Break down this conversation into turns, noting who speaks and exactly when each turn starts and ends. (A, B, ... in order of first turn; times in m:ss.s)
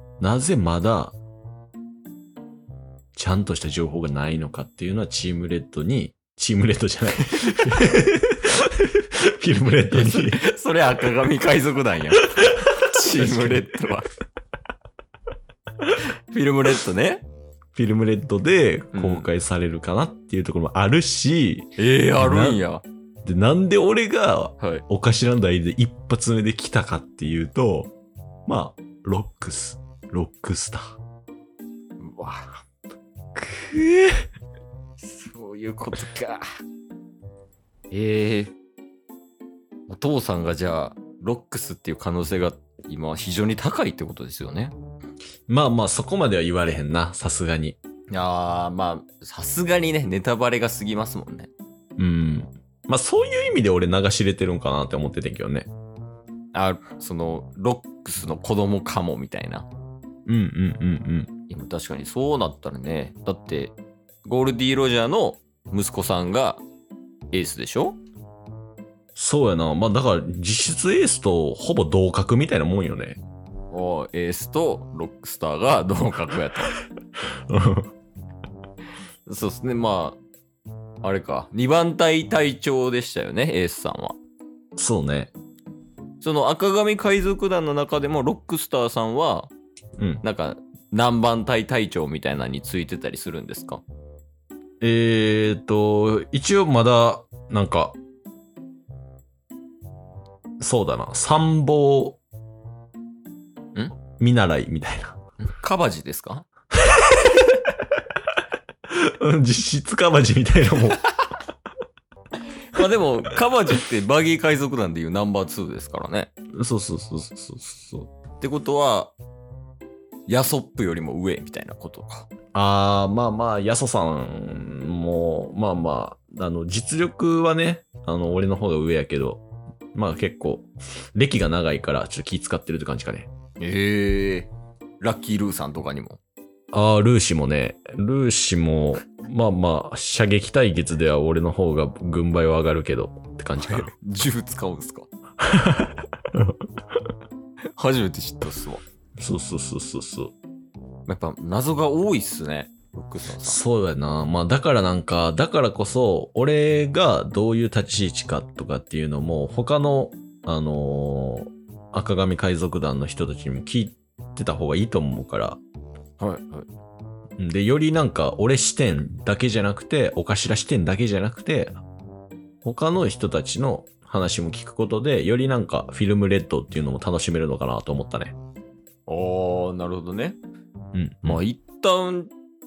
0:00.2-0:01.2 A
0:03.2-0:10.4 A
0:09.9-0:14.1 B
0:12.4-0:13.8 A
0:16.3-0:17.2 B
0:17.8-0:22.6 A
0:18.9-0:19.3 B
0:21.8-0:22.8 B
0:23.2-0:27.9 A
0:28.5-0:31.0 A
0:32.0-0:32.5 B
0:33.5-0:34.3 A
0:35.0-0:36.5 B
0:37.9-0:38.6 B
0:39.9-0:44.7 B
0:45.5-0:47.8 A
0:48.1-0:51.5 B
0:52.0-0:55.7 A
0:56.5-0:59.7 B
1:00.3-1:01.3 A
1:01.5-1:06.6 B
1:07.3-1:08.0 B
1:09.2-1:13.2 A
1:13.7-1:16.8 B
1:17.5-1:17.9 A
1:19.3-1:20.2 B
1:21.0-1:24.2 B
1:24.8-1:25.3 A
1:26.2-1:29.5 B
1:30.0-1:30.2 A
1:30.2-1:33.8 B
1:34.8-1:38.0 A
1:40.6-1:42.2 A
1:44.2-1:45.2 A
1:45.4-1:46.5 B
1:48.9-1:51.0 A
1:52.7-1:56.3 B
1:56.6-1:58.1 A
1:58.4-1:59.1 B
2:00.3-2:02.3 B
2:02.5-2:13.3 A
2:13.6-2:16.2 B
2:16.7-2:23.9 A
2:23.6-2:25.1 B
2:25.4-2:26.7 A
2:27.8-2:28.8 B
2:29.2-2:30.3 A
2:31.1-2:33.6 B
2:33.4-2:45.6 A
2:46.2-2:46.7 B
2:47.4-2:51.8 A
2:52.6-2:58.4 A
2:59.1-3:00.4 B
3:00.9-3:01.4 A
3:01.2-3:02.3 B